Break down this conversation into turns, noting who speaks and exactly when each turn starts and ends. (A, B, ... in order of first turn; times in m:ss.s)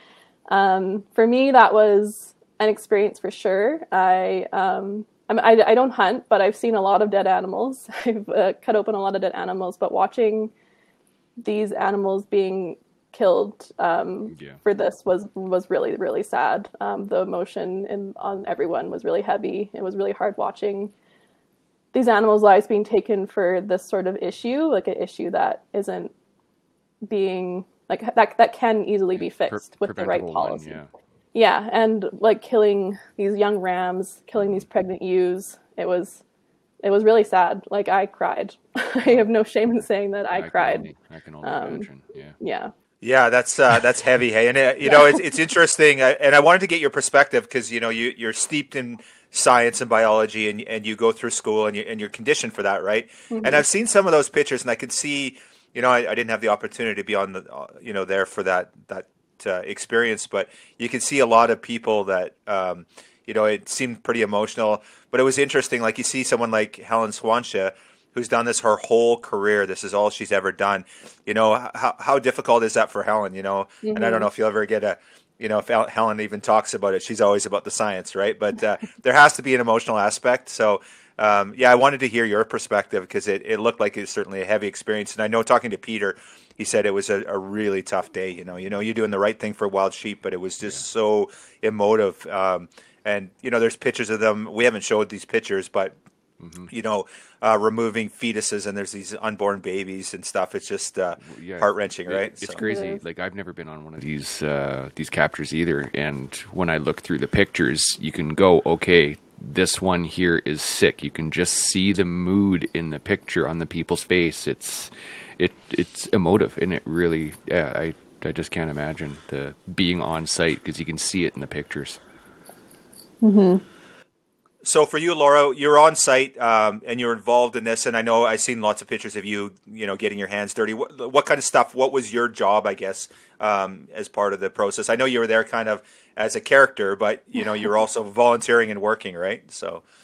0:00.5-0:10.5 A
0:11.4-0:20.9 A
0:14.3-0:14.6 B
0:21.9-0:26.1 A
0:27.0-0:30.8 A
0:29.2-0:30.9 B
0:31.3-0:36.2 A
0:36.8-0:40.9 A
0:40.3-0:42.4 B
0:41.4-0:41.9 A
0:42.4-0:42.7 A
0:43.0-1:36.0 C
0:53.3-0:53.6 A
1:13.8-1:14.3 A
1:36.4-1:36.7 B
1:36.7-1:42.6 C
1:41.2-2:02.0 B
1:42.6-1:43.0 A
2:03.2-2:03.6 A
2:04.6-2:19.8 C